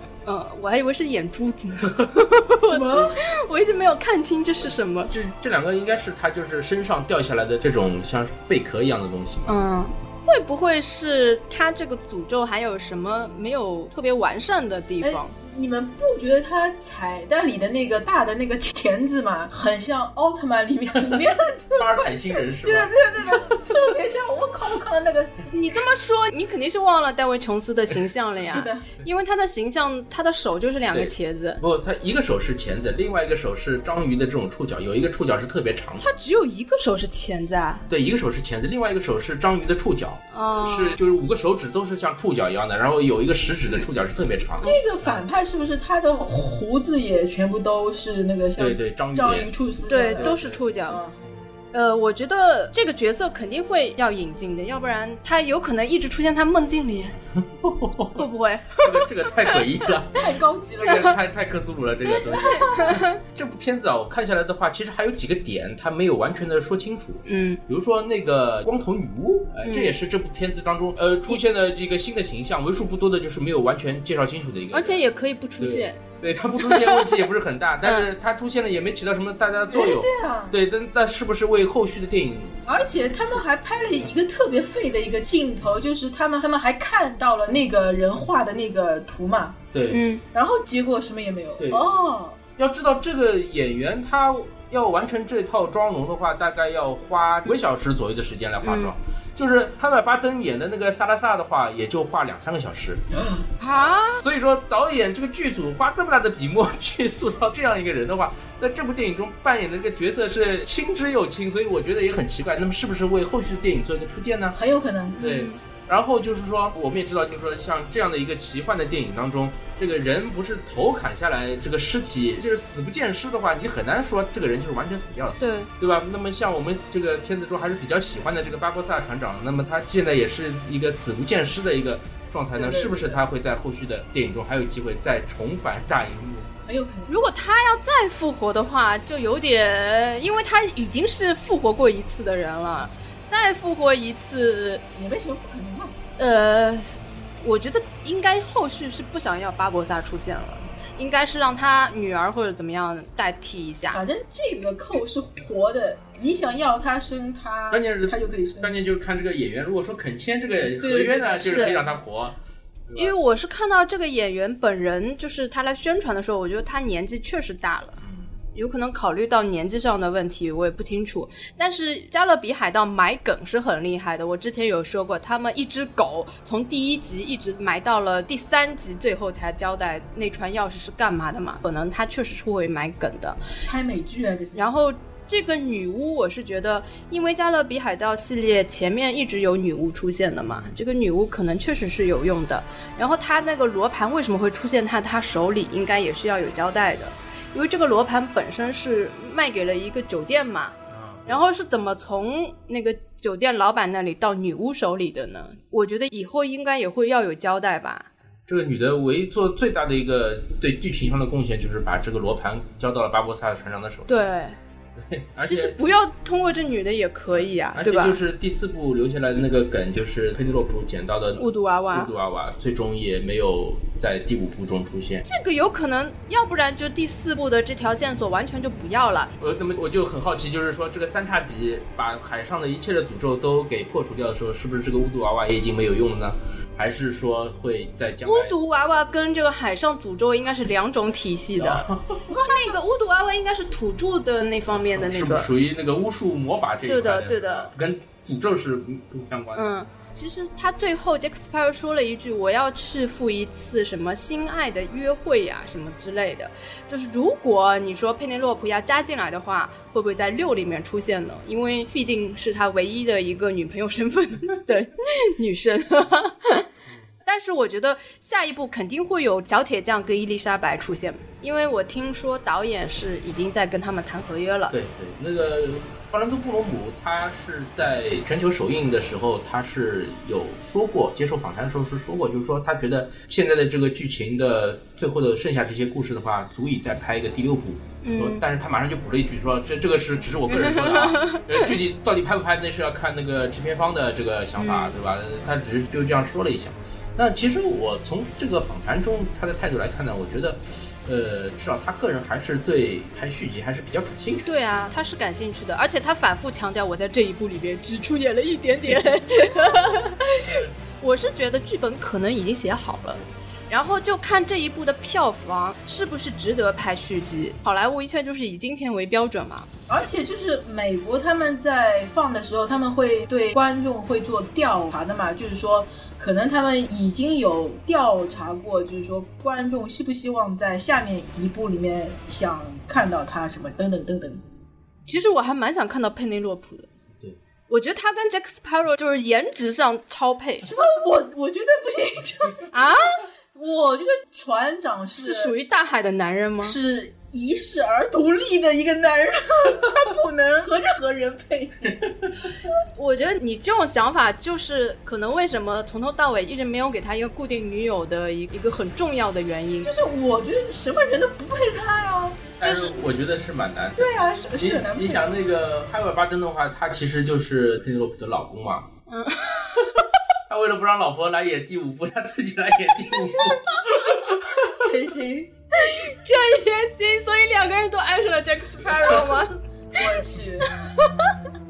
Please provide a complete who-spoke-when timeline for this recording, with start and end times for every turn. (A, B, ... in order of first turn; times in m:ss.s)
0:00.2-0:05.1 A
0:02.7-0:03.1 B
0:05.1-0:09.5 C
0:09.5-0:15.3 A
0:15.0-0:25.4 B
0:21.8-0:23.6 C
0:25.5-0:31.6 A
0:28.4-0:28.9 B
0:30.9-0:36.0 C
0:36.0-0:37.8 A
0:37.9-0:45.2 C
0:40.3-0:41.0 A
0:44.6-0:51.2 B
0:48.6-0:49.5 C
0:49.9-0:51.0 A
0:50.1-0:50.6 C
0:51.7-0:57.2 A
0:57.4-1:15.0 C
0:58.2-0:59.5 A
1:00.1-1:01.2 B
1:02.4-1:03.1 A
1:07.2-1:07.6 A
1:09.6-1:10.0 A
1:14.7-1:16.0 A
1:15.6-1:23.4 C
1:16.6-1:17.2 A
1:19.7-1:20.6 B
1:22.6-1:29.6 B
1:29.7-1:30.0 C
1:29.9-1:30.2 A
1:30.3-1:32.4 B
1:31.6-1:31.9 C
1:32.6-1:43.0 C
1:38.6-1:38.9 A
1:43.1-1:43.5 B
1:43.6-1:44.2 A
1:43.7-1:54.6 C
1:54.5-1:55.2 B
1:55.2-1:55.6 A
1:55.2-2:16.5 C
2:05.4-2:05.7 A
2:12.6-2:13.2 B
2:16.6-2:17.2 B
2:17.1-2:24.8 A
2:25.0-2:26.0 B
2:26.2-2:34.0 A
2:33.9-2:38.7 B
2:37.7-2:42.4 C
2:40.8-2:41.9 B
2:41.4-2:41.8 A
2:42.9-2:43.1 C
2:43.0-2:48.0 A
2:48.0-2:48.3 C
2:48.5-3:03.4 A
3:03.6-3:04.6 B
3:04.5-3:20.8 A
3:10.5-3:10.7 C
3:20.9-3:21.4 C
3:21.3-3:28.1 A
3:28.5-3:34.1 C
3:34.1-3:34.6 A
3:35.0-3:35.8 C
3:35.4-3:38.2 A
3:37.3-3:45.2 C
3:41.4-3:42.1 A
3:45.2-3:49.3 A
3:49.4-3:58.5 C
3:58.2-4:05.5 A
4:01.6-4:02.2 C
4:02.3-4:02.7 B
4:04.8-4:09.7 C
4:06.9-4:07.7 A
4:09.5-4:26.7 A
4:27.2-4:34.7 A
4:34.7-5:04.5 C
4:48.0-4:48.4 A
4:50.5-4:51.7 A
4:54.6-4:55.0 A
5:04.4-5:19.7 A
5:19.9-5:34.4 B
5:35.0-5:36.9 A
5:37.7-5:40.7 A
5:40.6-5:42.9 B
5:42.7-5:43.2 A
5:43.5-5:45.5 B
5:45.2-5:46.8 A
5:46.6-5:52.0 B
5:52.9-5:59.9 A
5:59.8-6:02.6 B
6:02.6-6:03.0 A
6:02.6-6:08.9 C
6:04.0-6:05.3 B
6:09.1-6:10.0 A
6:10.5-6:14.8 C
6:13.3-6:14.0 A
6:14.6-6:15.5 B
6:15.8-6:20.1 A
6:19.9-6:20.7 B
6:20.8-6:21.4 A